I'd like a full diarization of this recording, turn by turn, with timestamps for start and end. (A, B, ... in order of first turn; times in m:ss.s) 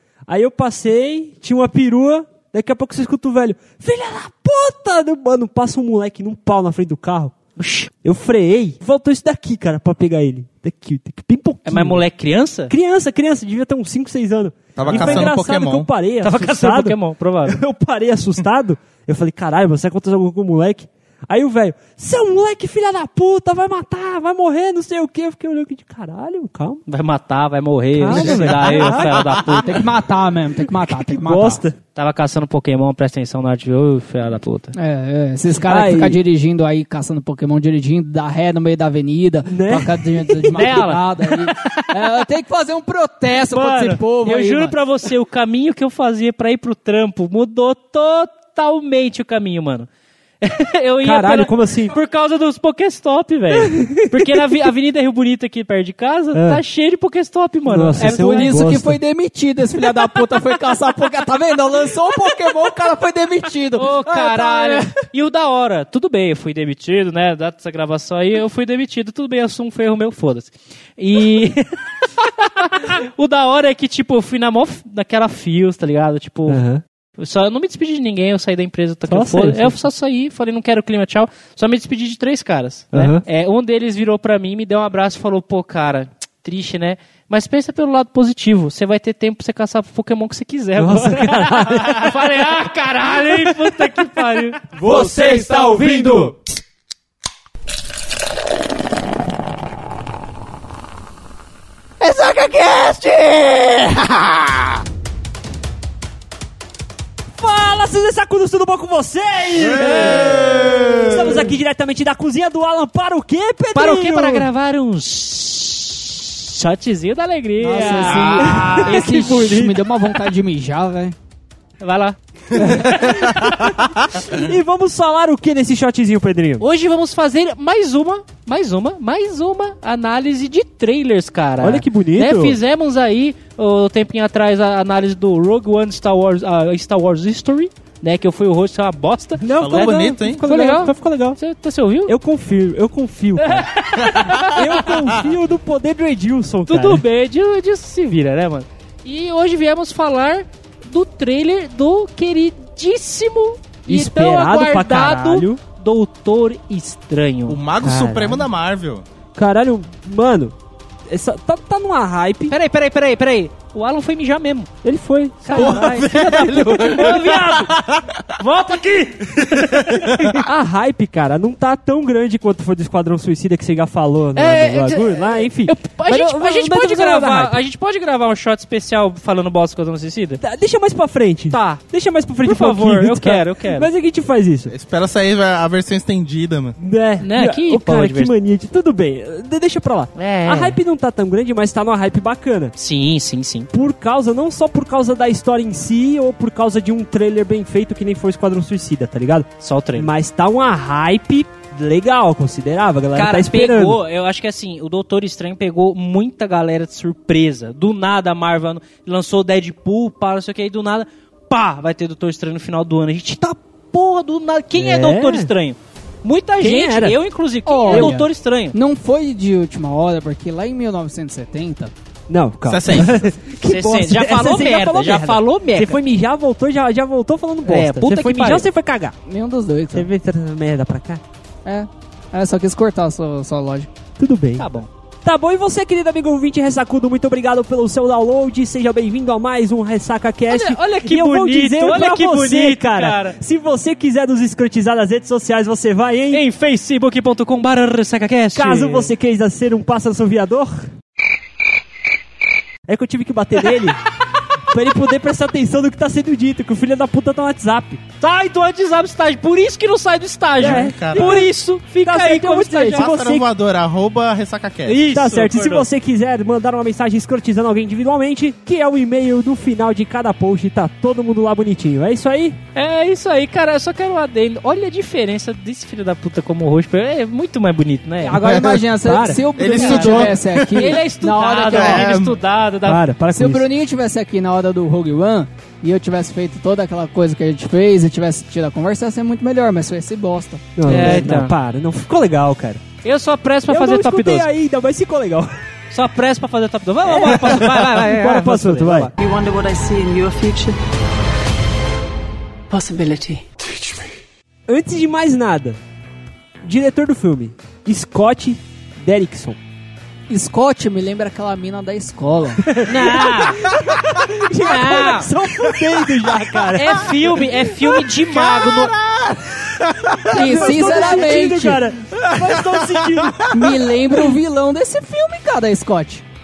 0:00.3-0:07.4 A
0:07.6-0:07.9 B
0:08.0-0:12.0 A
0:11.6-0:12.7 B
0:12.7-0:26.8 A
0:14.8-0:15.9 C
0:14.9-0:15.3 B
0:16.2-0:17.6 B
0:26.9-0:29.8 B
0:27.9-0:28.9 A
0:28.1-0:31.6 D
0:28.2-0:29.8 C
0:30.7-0:31.8 A
0:32.0-0:34.7 B
0:34.7-0:44.8 D
0:35.6-0:36.2 A
0:39.5-0:40.8 A
0:40.5-0:42.2 B
0:43.4-0:49.9 B
0:50.4-0:58.5 B
0:51.0-0:52.0 A
0:53.6-0:54.6 A
0:56.3-0:56.6 A
0:57.7-0:59.0 A
0:58.0-1:05.0 D
1:03.7-1:16.6 B
1:16.5-1:16.8 A
1:17.2-1:34.6 B
1:19.1-1:19.8 A
1:22.9-1:23.2 A
1:30.8-1:32.2 A
1:34.8-1:36.3 D
1:34.9-1:36.3 A
1:42.2-1:43.7 C
1:47.4-1:54.5 A
1:49.8-1:50.2 B
1:49.9-1:51.3 C
1:53.8-1:59.6 B
1:57.6-2:01.2 D
1:57.8-1:59.8 A
1:58.1-1:58.9 C
2:01.8-2:03.0 B
2:02.9-2:06.6 A
2:03.1-2:04.2 C
2:06.6-2:22.1 B
2:11.6-2:12.6 A
2:19.4-2:21.4 A
2:19.6-2:20.5 C
2:22.1-2:27.0 A
2:23.4-2:25.1 B
2:26.7-2:37.6 B
2:33.9-2:35.6 A
2:37.5-2:39.1 C
2:37.8-2:38.5 A
2:39.4-2:40.6 A
2:41.1-2:42.6 A
2:42.5-2:44.7 B
2:44.8-2:47.7 A
2:45.4-2:47.7 B
2:45.6-2:48.2 C
2:48.4-2:50.4 B
2:49.4-2:50.3 C
2:50.4-2:57.6 A
2:54.3-3:00.4 B
3:00.4-3:04.7 A
3:01.5-3:01.8 B
3:02.4-3:03.9 B
3:04.7-3:06.8 C
3:06.8-3:12.7 A
3:07.2-3:08.3 B
3:10.2-3:10.8 B
3:12.8-3:13.7 B
3:13.7-3:24.0 A
3:19.6-3:20.1 B
3:23.2-3:38.8 B
3:34.8-3:35.5 A
3:36.6-3:37.2 A
3:37.7-3:38.2 D
3:37.9-3:38.3 A
3:38.7-3:41.9 D
3:42.3-3:49.2 A
3:42.7-3:43.3 C
3:43.6-3:46.0 B
3:47.7-3:48.7 B
3:49.2-3:50.1 D
3:49.9-3:51.2 A
3:51.6-3:53.9 D
3:54.2-3:54.6 A
3:54.6-3:54.9 B
3:55.2-4:06.4 A
4:00.5-4:03.4 B
4:06.3-4:09.1 B
4:08.6-4:10.9 A
4:12.9-4:14.0 A
4:14.7-4:18.0 A
4:18.2-4:23.1 B
4:20.6-4:21.5 A
4:20.6-4:21.4 C
4:22.0-4:23.4 A
4:22.9-4:25.0 C
4:24.9-4:25.9 B
4:25.1-4:32.6 A
4:32.8-4:43.0 B
4:38.2-4:42.1 D
4:38.4-4:39.4 A
4:39.6-4:41.0 C
4:41.7-4:42.4 C
4:42.8-4:43.7 A
4:43.3-4:51.2 D
4:50.8-4:52.8 A
4:50.9-4:51.6 B
4:53.0-4:54.5 B
4:53.7-4:55.5 A
4:55.9-4:59.1 B
4:57.0-4:59.1 A
4:59.2-5:00.8 E
5:02.7-5:03.5 E
5:04.7-5:05.8 A
5:06.6-5:09.6 A
5:10.3-5:12.8 D
5:12.6-5:17.4 A
5:12.9-5:13.6 B
5:14.5-5:15.3 B
5:16.8-5:19.0 B
5:18.3-5:20.3 C
5:20.2-5:23.5 A
5:20.3-5:21.8 D
5:23.5-5:26.2 D